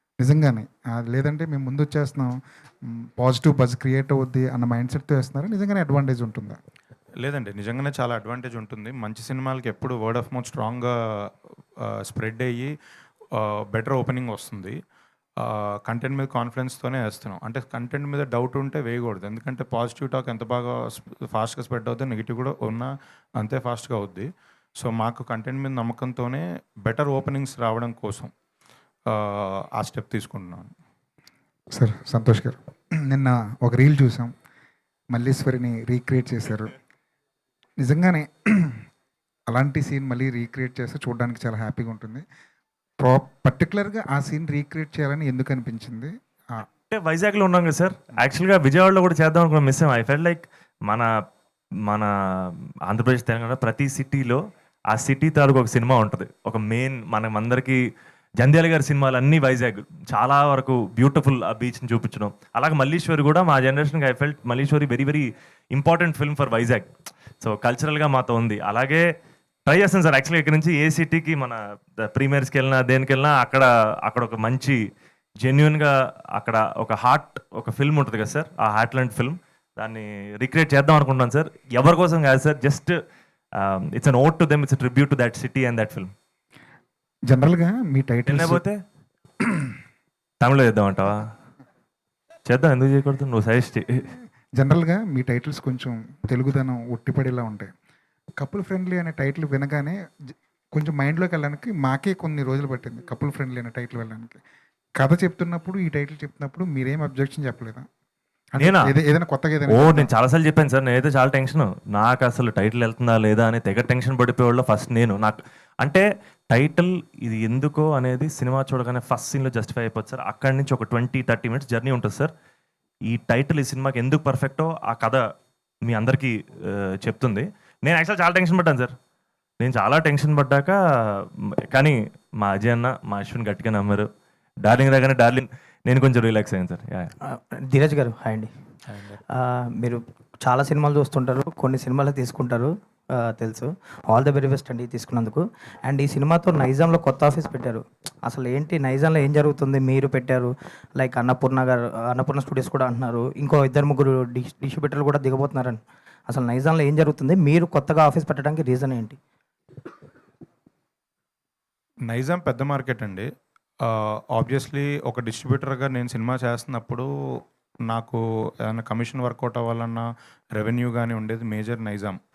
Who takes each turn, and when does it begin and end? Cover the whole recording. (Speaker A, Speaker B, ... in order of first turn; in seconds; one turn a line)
Speaker A: 0.2-2.4
Speaker A: 3.0-6.6
Speaker B: 7.2-10.9
Speaker B: 11.8-12.7
Speaker B: 13.3-14.8
Speaker B: 15.4-24.3
Speaker B: 24.8-28.3
Speaker B: 29.1-30.7
Speaker A: 31.8-32.6
Speaker A: 33.1-34.3
Speaker A: 35.1-36.8
Speaker A: 37.8-38.8
Speaker A: 39.5-42.2
Speaker A: 43.0-46.6
Speaker C: 46.9-51.1
Speaker C: 51.9-54.4
Speaker C: 54.9-57.8
Speaker C: 58.4-66.9
Speaker C: 67.4-69.0
Speaker C: 69.7-74.8
Speaker C: 75.4-83.0
Speaker C: 83.6-86.1
Speaker A: 87.3-88.6
Speaker C: 88.3-88.8
Speaker C: 90.4-91.3
Speaker C: 92.5-94.0
Speaker A: 94.6-97.7
Speaker A: 98.4-100.0
Speaker A: 100.8-104.4
Speaker A: 105.0-107.9
Speaker A: 108.5-110.1
Speaker C: 108.6-108.8
Speaker C: 109.7-122.3
Speaker C: 123.1-125.2
Speaker C: 125.9-128.9
Speaker C: 129.6-134.1
Speaker C: 134.6-137.1
Speaker D: 137.3-138.5
Speaker D: 139.4-159.2
Speaker B: 162.1-163.3
Speaker B: 163.8-167.1
Speaker B: 167.9-172.2